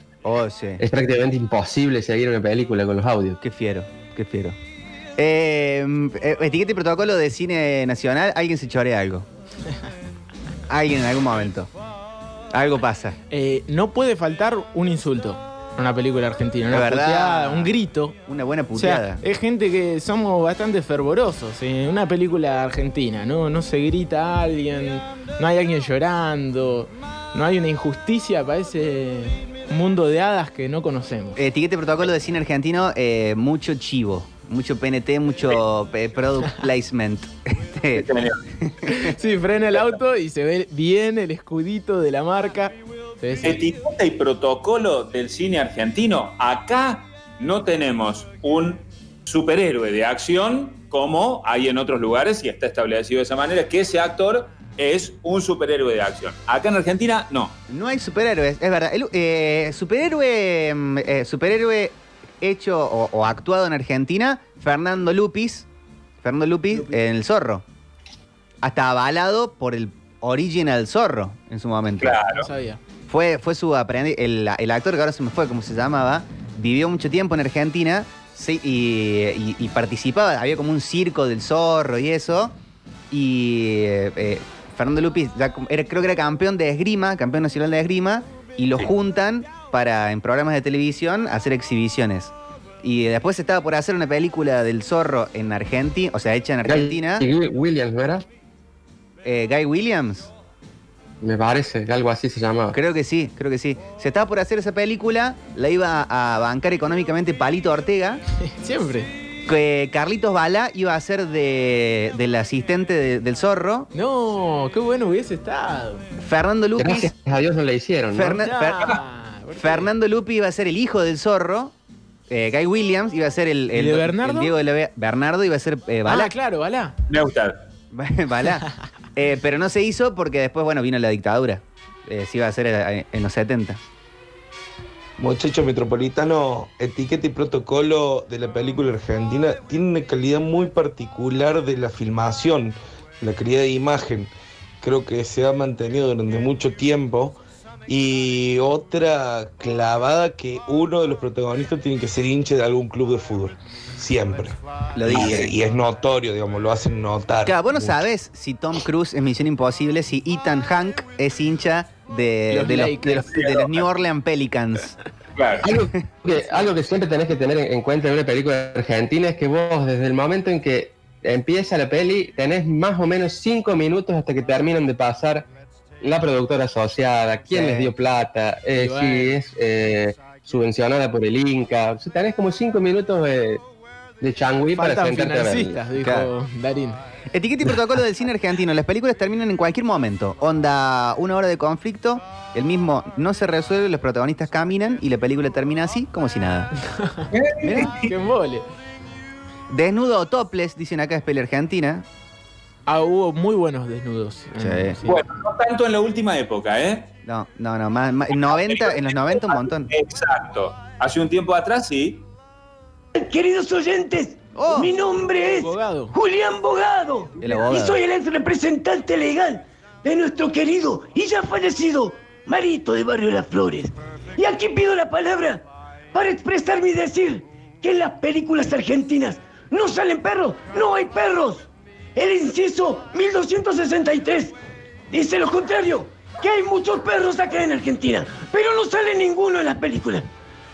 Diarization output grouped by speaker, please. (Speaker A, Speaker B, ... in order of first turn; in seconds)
Speaker A: 0.2-0.8, 3.4-4.6, 5.2-9.3, 10.7-11.7, 12.5-13.2, 16.7-17.7, 18.2-19.2, 31.4-38.1, 38.6-39.1, 57.7-65.7, 66.2-67.6, 68.6-72.2, 73.1-82.5, 83.1-97.3, 99.2-100.3, 102.7-108.2, 109.5-113.9, 116.2-117.1, 118.1-119.0, 119.5-121.7, 122.3-126.3, 127.9-133.8, 154.9-155.5, 157.4-164.9, 177.5-177.9, 186.0-186.3, 187.3-196.7, 197.6-197.9, 199.7-202.1, 204.6-205.0, 207.2-209.9, 214.5-214.9, 217.4-218.0
Speaker B: 0.8-3.4, 96.6-98.2, 101.2-102.8, 116.8-118.4, 165.6-175.4, 176.0-183.6, 184.2-185.8
Speaker C: 13.3-18.1, 18.7-31.4, 38.9-43.6, 72.3-72.8, 108.4-109.1, 113.9-116.1, 118.4-119.9, 123.7-124.5, 126.0-126.9, 162.5-163.2, 178.8-179.3, 184.8-187.0, 196.9-197.3, 197.8-198.7, 202.9-205.2, 215.4-216.1
Speaker D: 37.9-38.4, 43.4-57.5, 72.0-72.5, 127.1-127.6, 163.3-163.9, 165.3-165.7, 197.3-198.1, 205.1-207.1, 208.4-212.2
Speaker E: 135.2-158.0
Speaker F: 213.1-234.6, 235.1-240.3